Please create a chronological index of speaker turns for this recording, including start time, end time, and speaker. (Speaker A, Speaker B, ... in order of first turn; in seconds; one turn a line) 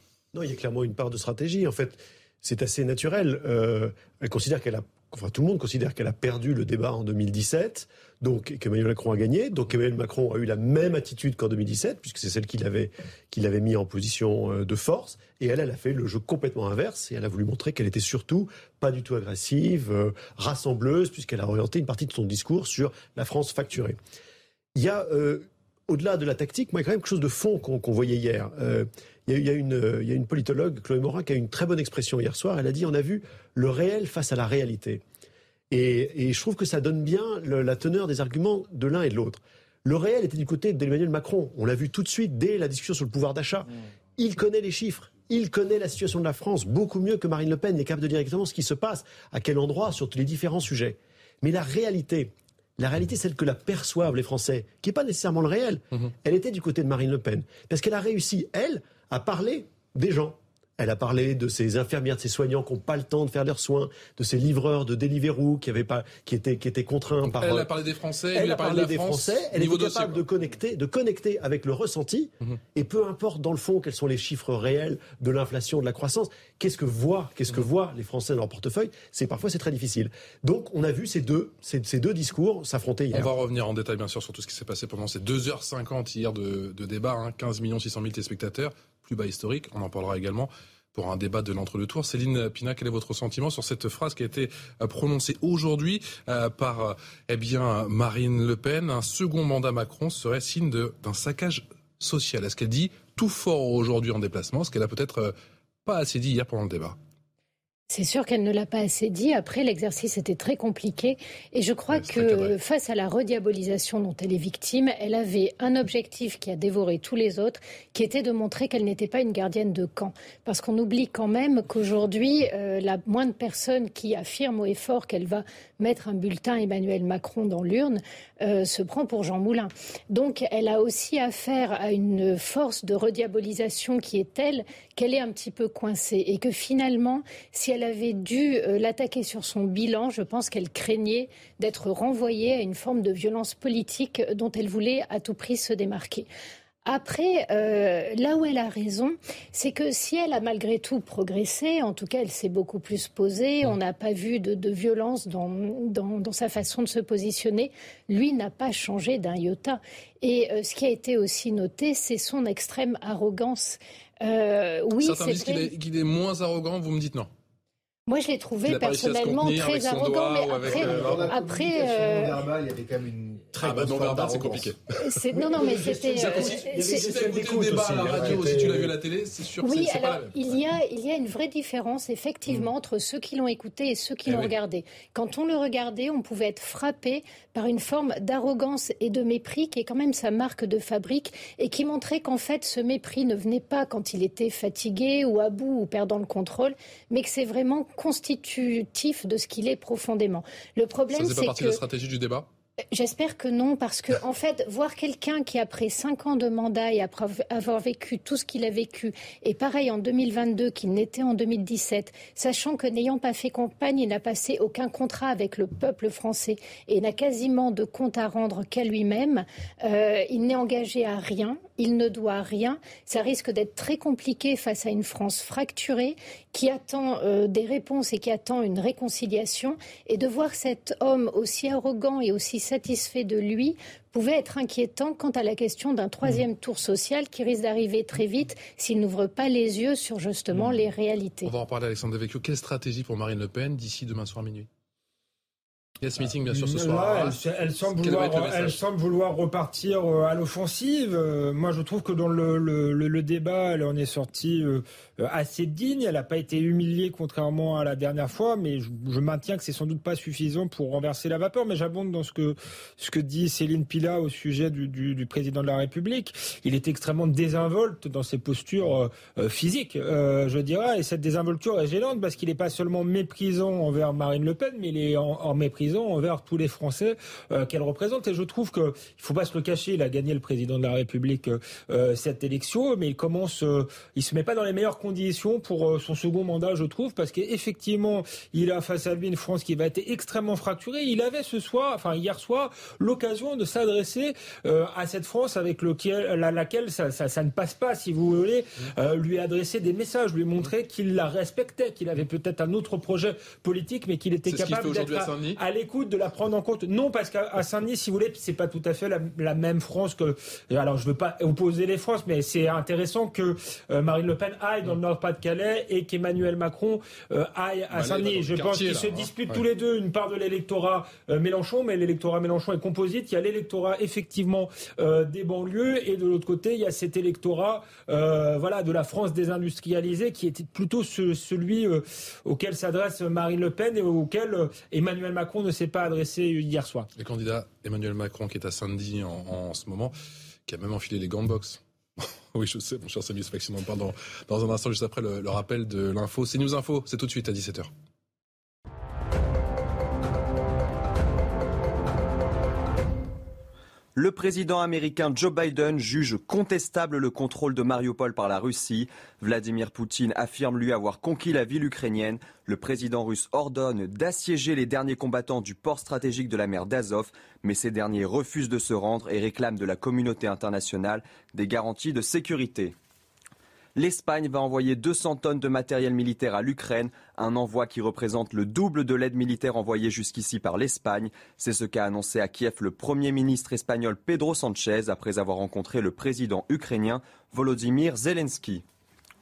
Speaker A: 0.3-24.0
Speaker A: 24.7-35.0
Speaker A: 35.7-67.7
Speaker B: 67.2-70.2
Speaker A: 68.3-83.3
Speaker B: 83.1-105.3
Speaker B: 105.8-107.0
Speaker C: 107.9-146.3
Speaker B: 112.0-112.5
Speaker C: 146.8-165.7
Speaker B: 165.0-167.3
Speaker C: 168.1-172.4
Speaker B: 168.6-171.3
Speaker D: 170.6-173.5
Speaker A: 173.5-174.7
Speaker B: 173.6-174.9
Speaker C: 174.9-177.1
Speaker A: 175.3-178.9
Speaker B: 176.2-180.6
Speaker C: 179.6-201.8
Speaker B: 184.3-184.5
Speaker B: 201.1-202.5
Speaker C: 202.9-241.5
Speaker B: 241.4-244.7
Speaker B: 246.0-248.8
Speaker E: 246.4-337.1
Speaker B: 304.5-305.6
Speaker B: 317.9-319.6
Speaker B: 337.1-340.1
Speaker B: 340.7-347.9
Speaker F: 354.1-372.9
Speaker F: 373.9-388.8